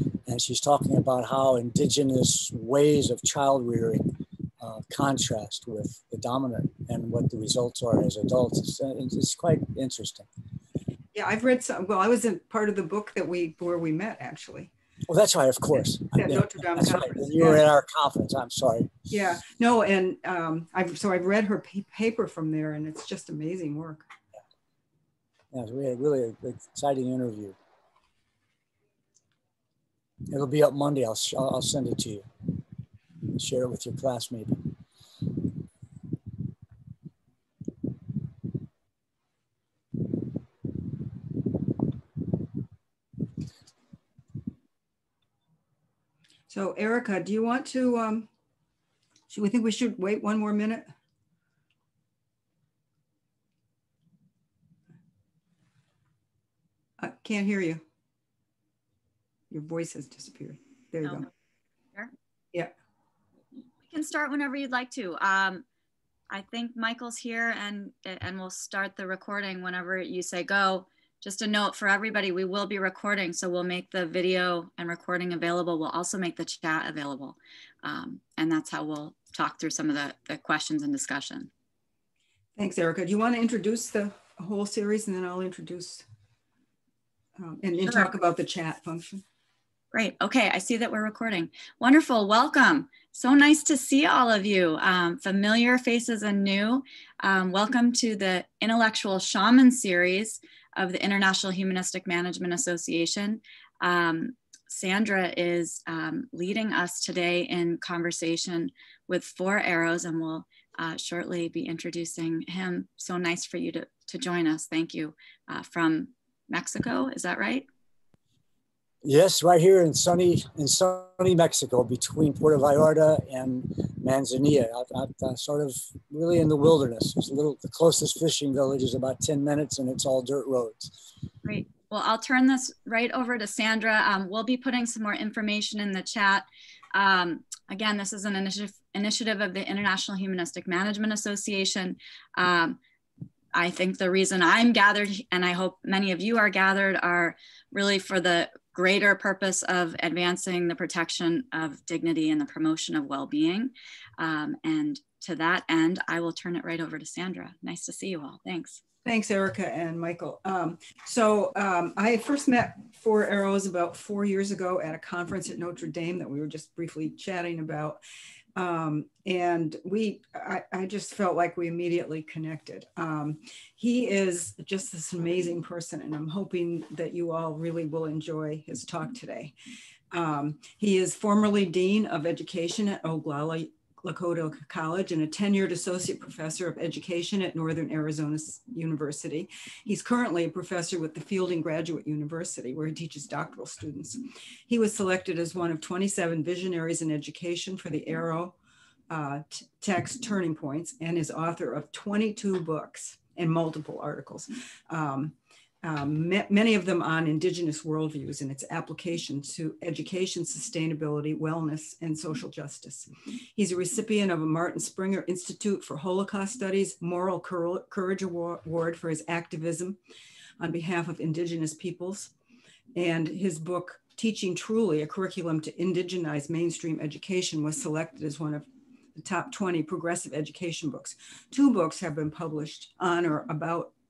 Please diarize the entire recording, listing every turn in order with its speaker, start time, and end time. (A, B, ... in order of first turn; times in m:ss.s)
0:00.3-0:10.3 A
0:11.1-0:14.7 B
0:15.1-0:19.0 A
0:16.1-0:17.6 B
0:19.1-0:24.0 B
0:25.5-0:27.6 A
0:30.3-0:32.2 A
0:33.3-0:34.7 A
0:46.5-0:48.3 B
0:49.3-0:50.8 B
0:57.0-0:57.8 B
0:59.5-1:01.3 B
1:01.0-1:01.3 C
1:03.9-1:05.6 C
1:06.3-1:21.5 C
1:22.6-1:26.0 B
1:27.4-1:29.2 B
1:29.9-1:57.7 C
1:59.0-2:10.9 A
2:11.4-2:22.8 C
2:23.5-2:38.8 C
2:39.0-2:48.0 B
2:48.5-2:59.5 B
3:00.1-3:18.6 B
3:19.1-3:40.0 B
3:40.6-3:42.3 B
3:42.9-3:53.9 B